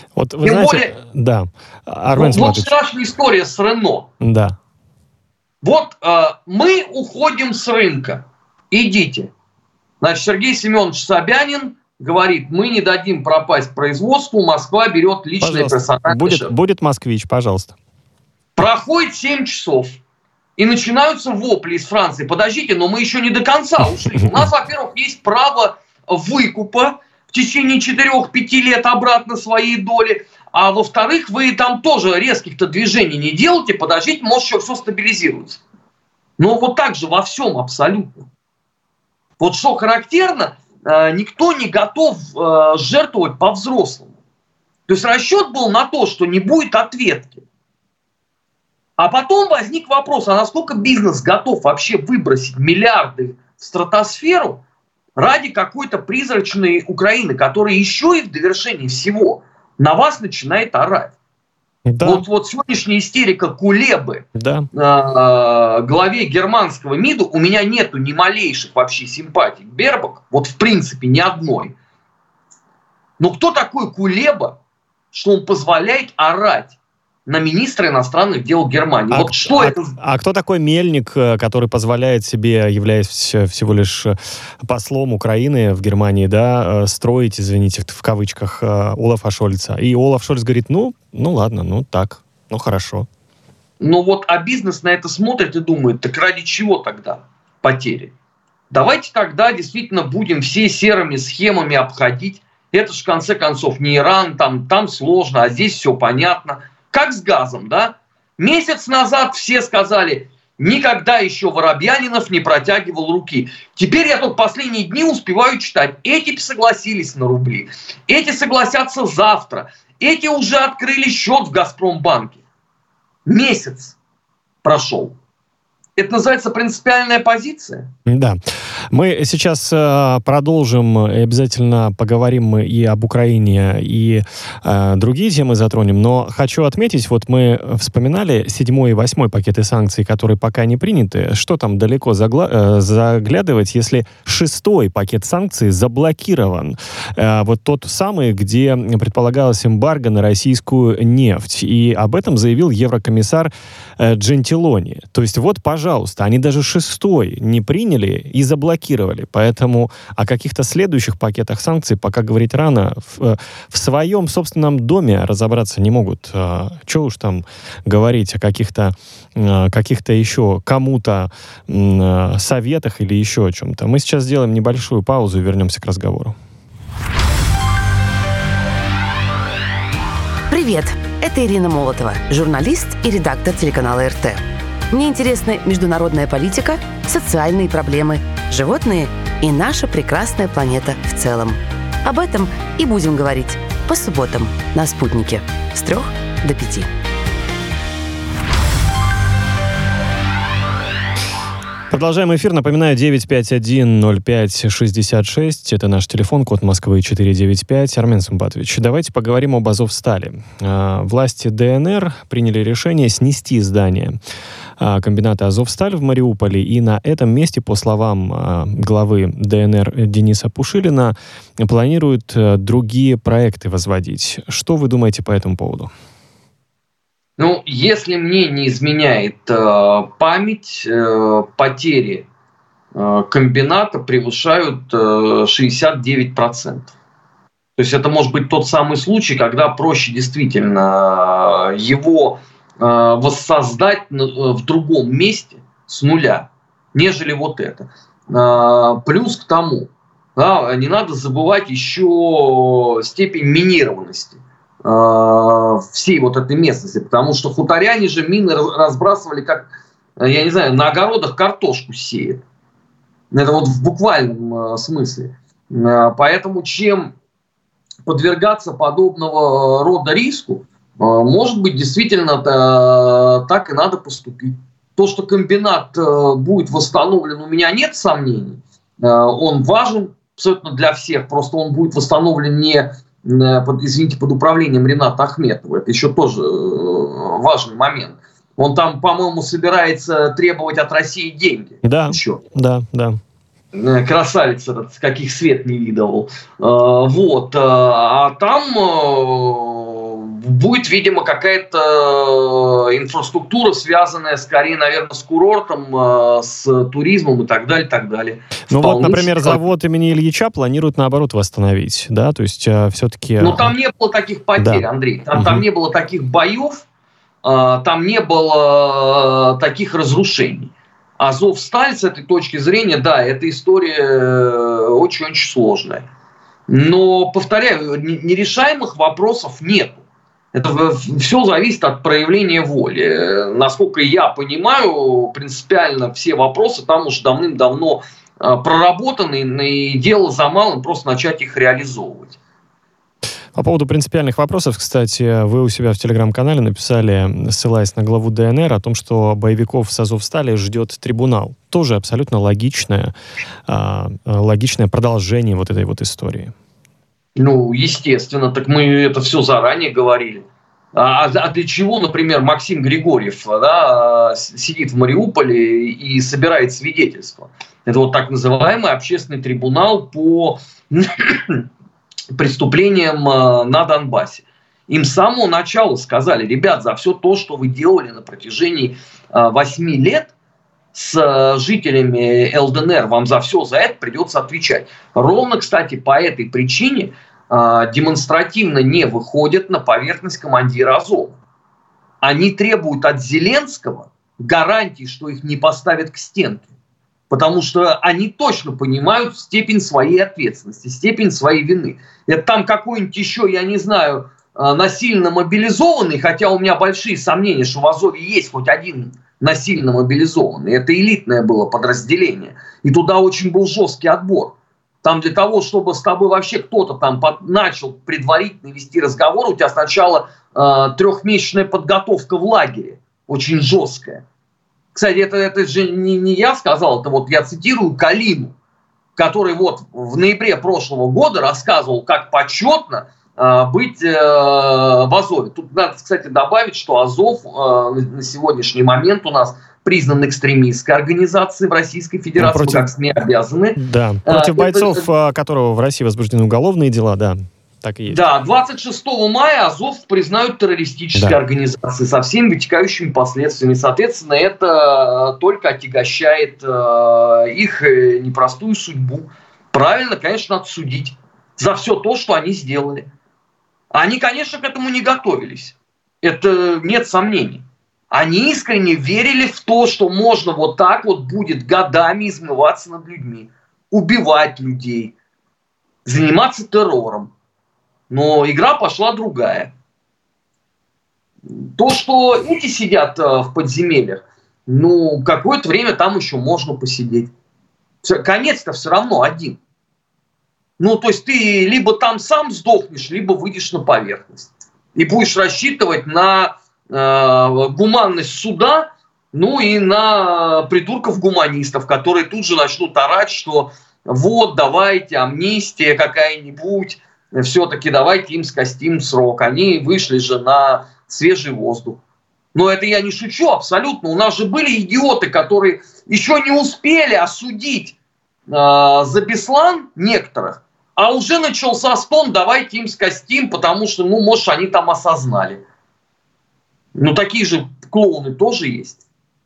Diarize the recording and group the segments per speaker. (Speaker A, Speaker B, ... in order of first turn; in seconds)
Speaker A: 0.1-2.7, 4.2-4.5, 15.4-17.7, 61.9-62.2, 64.3-64.7, 79.1-93.1, 128.1-128.4, 128.9-176.3, 201.9-214.2, 214.8-225.9, 291.8-293.2, 308.7-313.7, 314.6-315.6, 343.5-353.1, 353.7-356.5, 442.4-442.9, 443.8-448.2
Speaker B: 0.4-0.9, 2.1-4.1, 5.6-9.3, 10.0-16.5, 18.6-20.0, 20.6-35.6, 36.4-38.3, 39.4-44.1, 44.9-47.4, 49.0-54.6, 55.1-61.1, 62.0-71.7, 73.2-74.6, 75.1-76.7, 77.2-79.9, 93.8-98.1, 98.7-122.4, 123.2-124.0, 124.6-125.1, 126.0-127.9, 227.4-232.2, 232.9-236.9, 237.8-262.4, 263.3-267.1, 268.1-292.4, 293.7-309.6, 313.4-316.8, 317.4-326.1, 326.7-330.0, 330.5-342.4, 357.4-371.6, 372.3-380.3, 380.9-391.4, 392.2-396.7, 397.3-424.2, 424.9-428.5, 429.1-445.1, 448.1-463.1, 463.9-475.1, 476.0-477.3, 478.1-479.7, 481.5-487.3, 488.0-489.6, 490.8-512.0, 512.5-518.0, 518.5-525.6, 527.0-529.0
Speaker C: 180.5-196.9